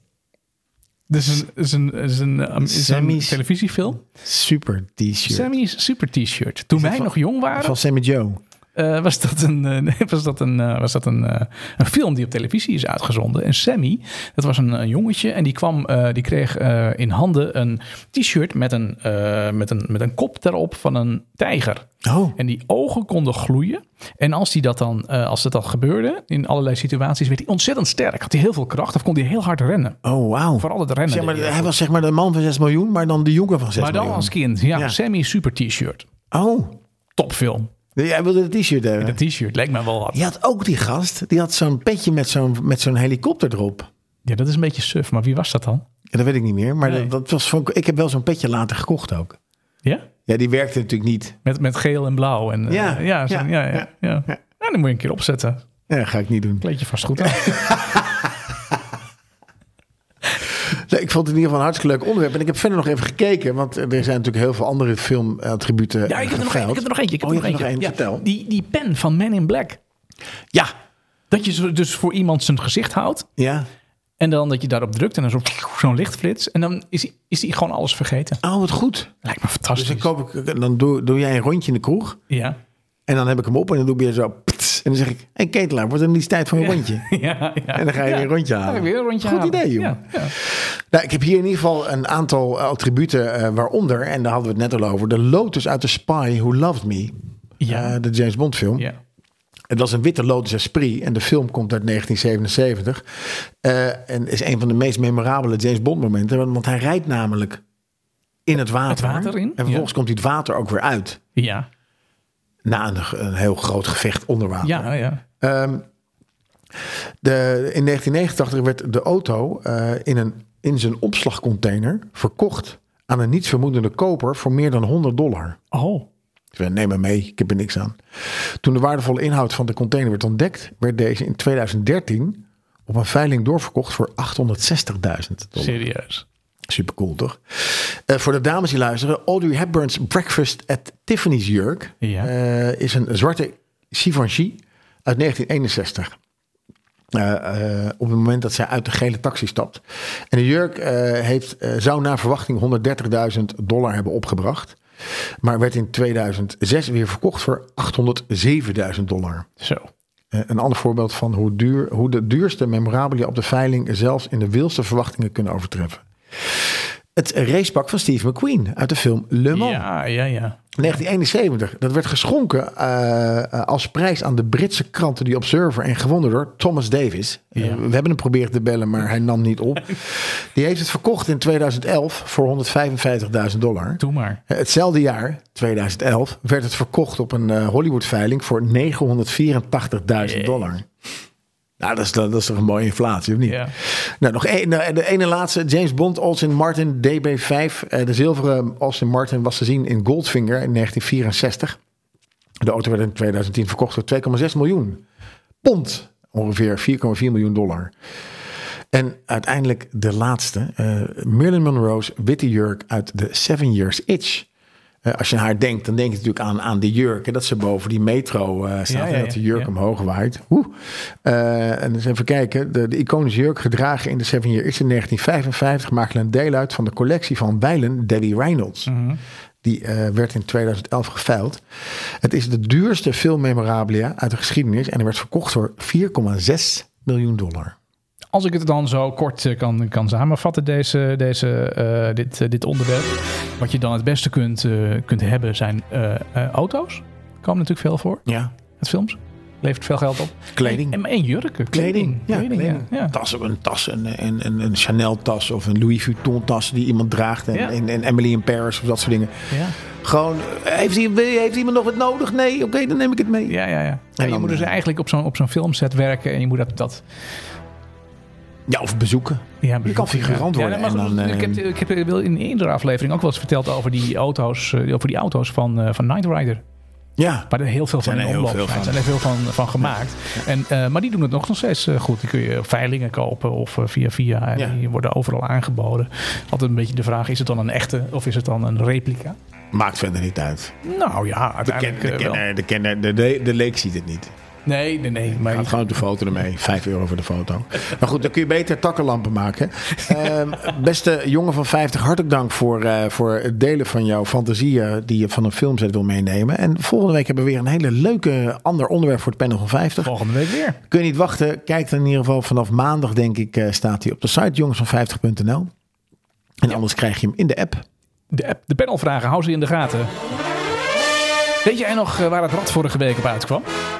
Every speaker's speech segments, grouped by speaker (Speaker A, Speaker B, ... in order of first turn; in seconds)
Speaker A: 1.1-4.0, 5.3-7.8, 8.7-30.0, 30.6-31.7, 33.8-36.1, 37.1-37.7, 39.0-40.2, 44.2-45.8, 46.8-47.1, 51.4-55.6, 56.6-57.7, 66.0-69.8, 71.3-73.3, 74.2-78.4, 79.2-80.1, 82.3-82.6, 86.6-90.3, 97.6-98.0, 108.9-109.9, 111.3-111.7, 114.6-115.2, 125.7-126.1, 135.6-136.2, 142.0-142.3, 159.6-159.9, 169.5-170.9, 177.6-177.8, 184.0-184.4, 190.2-190.7, 193.4-193.7, 218.9-219.7, 228.9-229.2, 238.3-248.2, 248.8-253.1, 259.5-259.8, 263.5-267.0, 269.6-276.6, 277.5-289.4, 290.8-292.4, 294.6-295.9, 310.0-310.8, 318.3-320.1, 321.6-323.7
Speaker B: 2.6-3.4, 4.0-5.5, 6.7-8.4, 22.0-22.4, 30.0-35.0, 36.3-36.8, 37.9-39.2, 40.1-43.9, 46.1-49.4, 50.2-51.4, 52.7-53.9, 55.9-56.6, 57.2-58.8, 60.6-68.2, 73.4-73.7, 78.4-79.1, 79.7-82.2, 83.1-87.1, 87.7-97.1, 97.7-98.9, 99.7-107.6, 108.5-111.2, 112.6-115.8, 117.2-125.6, 126.5-135.8, 136.7-146.1, 147.1-154.8, 155.4-159.5, 160.3-169.8, 170.8-190.9, 191.8-201.8, 202.6-205.0, 205.6-207.9, 208.9-214.5, 215.0-228.9, 229.6-237.7, 248.2-248.5, 250.5-251.0, 251.7-263.6, 264.2-264.7, 268.7-271.6, 277.2-279.0, 289.7-290.7, 291.6-294.3, 295.3-310.1, 310.8-315.7, 316.6-317.8